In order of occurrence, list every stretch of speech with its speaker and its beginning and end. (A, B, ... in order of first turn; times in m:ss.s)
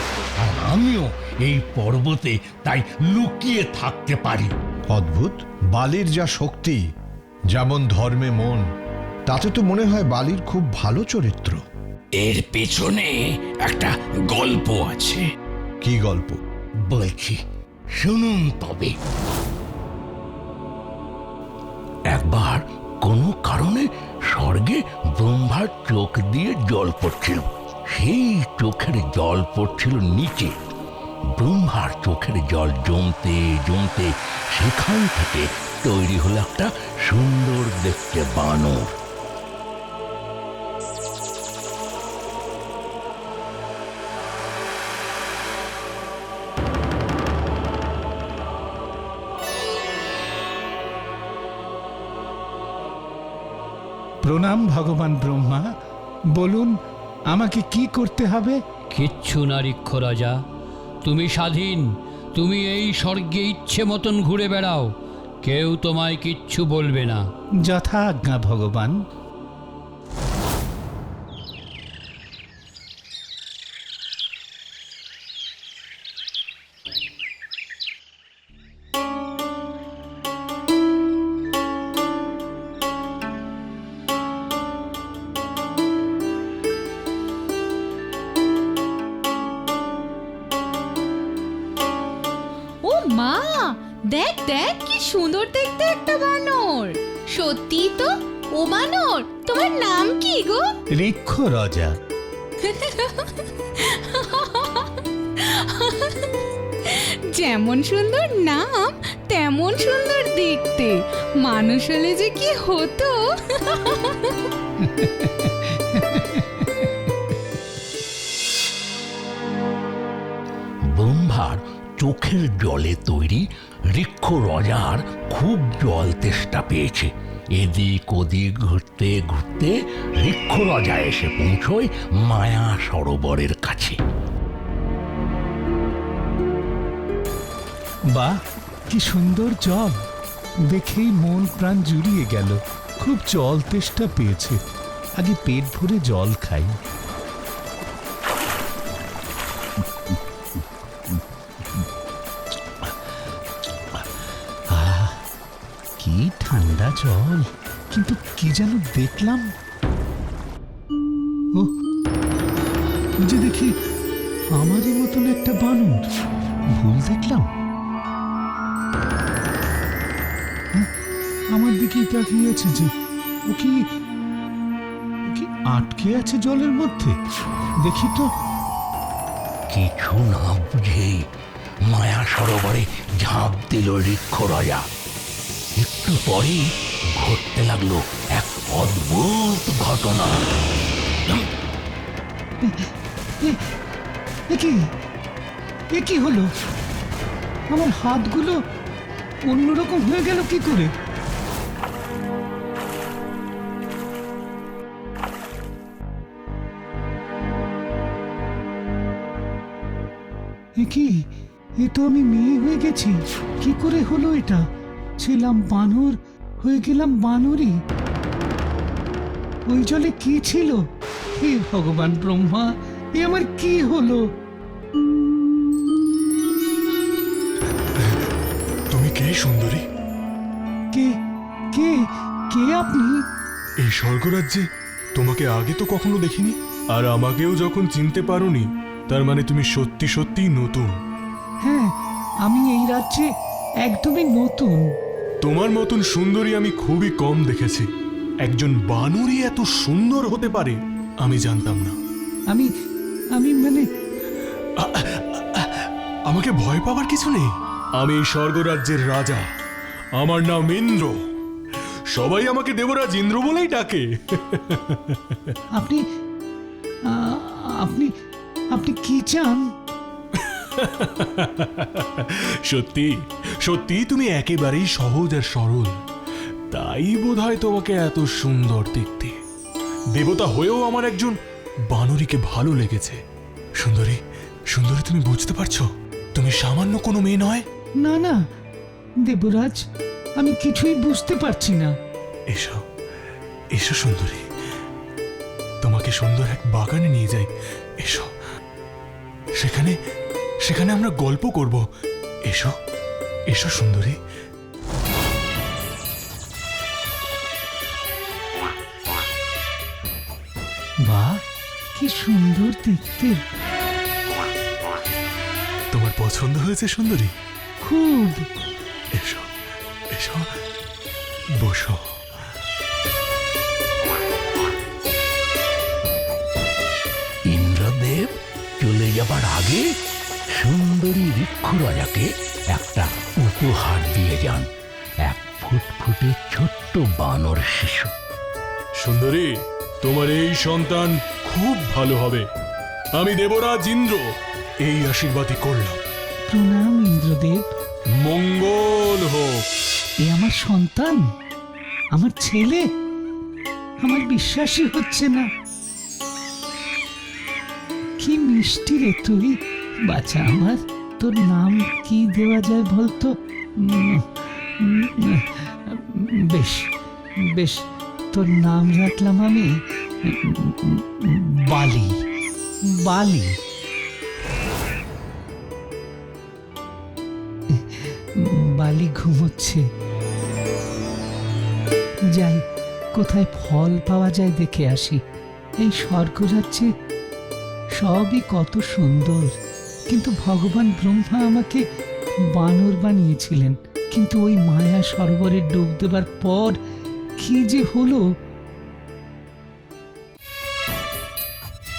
0:00.4-0:04.5 A
0:04.9-0:06.8 B
0:07.5-0:08.6 B
0:09.3-0:11.6 B
0:12.2-0:13.1 C
0:13.7-0:15.2 C
0:15.8-0:16.4 B
0:16.9-0:17.4 A
0:18.0-0:18.9 A
0:22.1-0:30.5 A
0:31.4-0:38.9 A
0:54.2-0:55.7 D
0:56.4-0:56.7 D
0:57.3-0:58.6 D
0:58.9-1:00.4 E
1:01.0-1:04.9 E
1:05.4-1:07.3 E
1:07.6-1:09.0 D
1:32.8-1:40.7 F
1:40.9-1:41.9 D
1:42.7-1:43.3 F
1:44.1-1:44.8 F
1:45.6-1:46.1 F
1:47.3-1:54.1 F
1:54.9-1:56.7 D
2:00.9-2:14.0 A
2:18.9-2:20.0 D
2:20.7-2:24.6 D
2:25.2-2:26.7 D
2:34.7-2:35.2 D
2:36.0-2:39.5 D
2:43.2-2:43.7 D
2:44.5-2:46.0 D
2:46.8-2:47.5 D
2:51.5-2:52.9 D
2:53.5-2:53.8 D
2:55.3-2:57.1 D
2:57.8-2:58.3 D
2:59.7-3:01.2 A
3:01.9-3:04.8 A
3:05.8-3:06.6 A
3:07.2-3:10.5 A
3:14.5-3:14.8 D
3:15.9-3:16.5 D
3:17.7-3:18.6 D
3:19.5-3:20.9 D
3:30.8-3:31.1 D
3:31.8-3:34.6 D
3:35.2-3:37.8 D
3:39.7-3:40.8 D
3:41.4-3:44.2 D
3:48.9-3:49.8 G
3:51.7-3:52.0 D
3:52.5-3:53.2 D
3:53.8-3:54.6 G
3:55.2-4:00.9 G
4:01.6-4:01.9 D
4:02.4-4:03.3 D
4:03.8-4:04.8 D
4:05.4-4:07.9 G
4:08.4-4:12.0 G
4:13.4-4:13.9 D
4:14.8-4:19.4 G
4:20.2-4:21.2 G
4:22.1-4:25.2 G
4:25.8-4:26.0 D
4:27.1-4:28.1 D
4:28.7-4:29.6 D
4:30.4-4:36.0 G
4:36.7-4:39.4 G
4:40.1-4:41.3 G
4:41.9-4:43.2 G
4:43.8-4:44.2 G
4:44.7-4:47.6 G
4:48.0-4:48.4 D
4:49.3-4:49.8 D
4:50.4-4:51.9 D
4:52.5-4:52.8 G
4:53.7-4:54.4 G
4:55.8-4:57.5 G
4:58.0-4:58.3 G
4:59.6-4:59.9 G
5:00.6-5:01.8 G
5:03.5-5:04.2 G
5:11.1-5:11.4 D
5:12.0-5:13.4 D
5:15.9-5:17.3 G
5:17.8-5:18.5 D
5:19.2-5:19.4 G
5:20.1-5:20.4 G
5:21.6-5:22.0 G
5:27.5-5:29.8 A
5:30.6-5:34.7 A
5:35.3-5:38.1 A
5:39.0-5:39.5 G
5:40.0-5:42.4 G
5:43.2-5:44.2 G
5:44.8-5:46.0 G
5:46.5-5:47.7 D
5:48.2-5:49.5 G
5:50.2-5:51.2 D
5:52.2-5:52.8 D
5:54.0-5:55.5 D
5:58.2-5:59.6 D
6:00.1-6:04.3 D
6:04.8-6:06.9 D
6:07.5-6:12.2 D
6:12.9-6:13.6 D
6:17.7-6:18.2 D
6:18.8-6:19.8 D
6:22.4-6:22.6 D
6:23.2-6:25.2 D
6:25.8-6:26.9 D
6:28.0-6:29.5 D
6:30.1-6:31.8 D
6:32.6-6:36.8 D
6:37.4-6:38.2 D